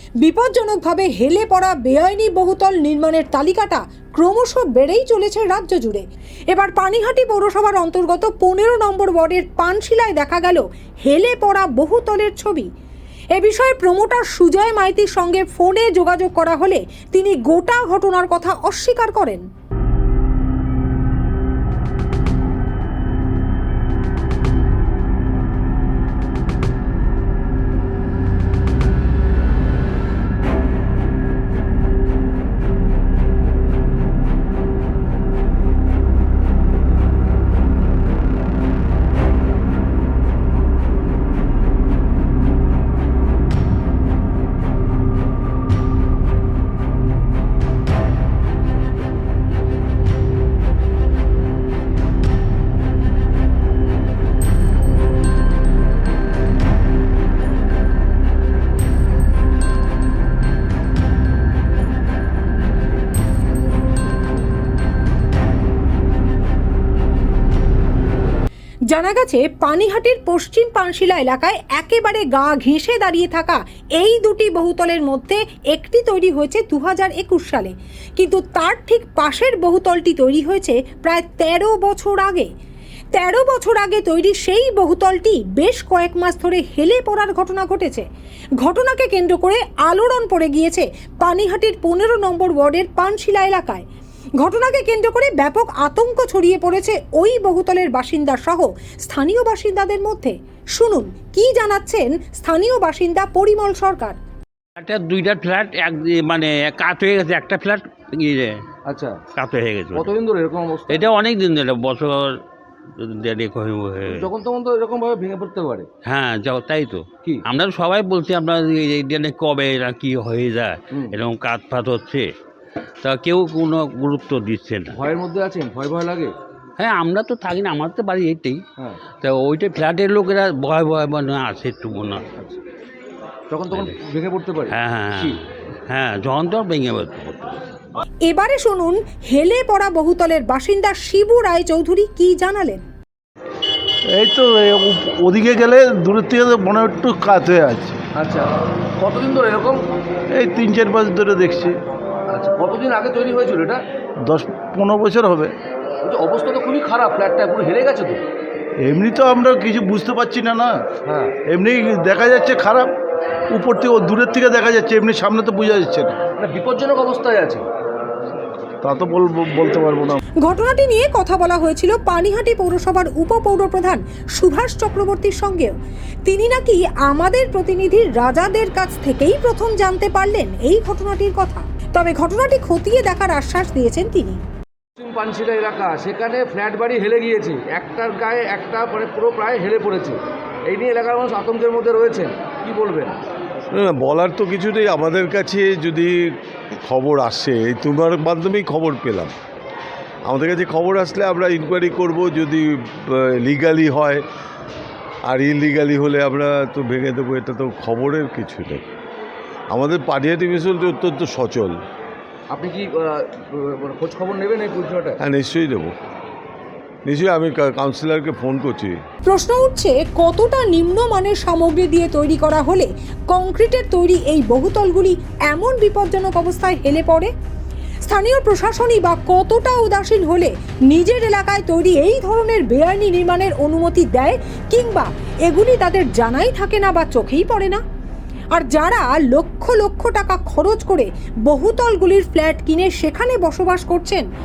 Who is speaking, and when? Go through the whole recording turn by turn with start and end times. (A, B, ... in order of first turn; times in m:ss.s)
0:00.2-0:12.7 A
0:13.3-0:19.5 A
1:08.9-1:22.5 A
1:23.1-1:28.1 A
1:28.6-1:33.9 A
1:34.4-1:44.2 A
1:44.8-1:48.6 B
1:48.9-1:49.2 C
1:49.4-1:50.1 B
1:49.9-1:51.1 C
1:50.9-1:52.4 B
1:53.0-1:54.3 B
1:54.1-1:55.9 C
1:56.0-2:02.3 B
2:03.0-2:05.0 B
2:04.9-2:06.4 C
2:06.8-2:08.6 B
2:09.2-2:12.2 B
2:13.5-2:15.4 C
2:14.7-2:17.6 B
2:18.3-2:22.8 A
2:24.1-2:28.0 D
2:28.2-2:29.9 C
2:30.3-2:31.8 D
2:32.3-2:33.8 C
2:34.2-2:35.5 D
2:36.0-2:38.2 C
2:38.8-2:40.9 D
2:41.0-2:41.4 C
2:41.4-2:42.9 D
2:43.5-2:46.2 D
2:46.3-2:47.7 C
2:48.8-2:50.2 D
2:50.4-3:04.4 A
3:05.0-3:13.2 C
3:13.7-3:19.3 E
3:20.2-3:24.2 E
3:25.3-3:28.9 E
3:29.7-3:31.8 E
3:32.5-3:35.2 C
3:35.2-3:35.9 E
3:37.0-3:39.0 E
3:39.3-3:47.3 A
3:48.1-3:57.8 A
3:58.5-4:04.3 A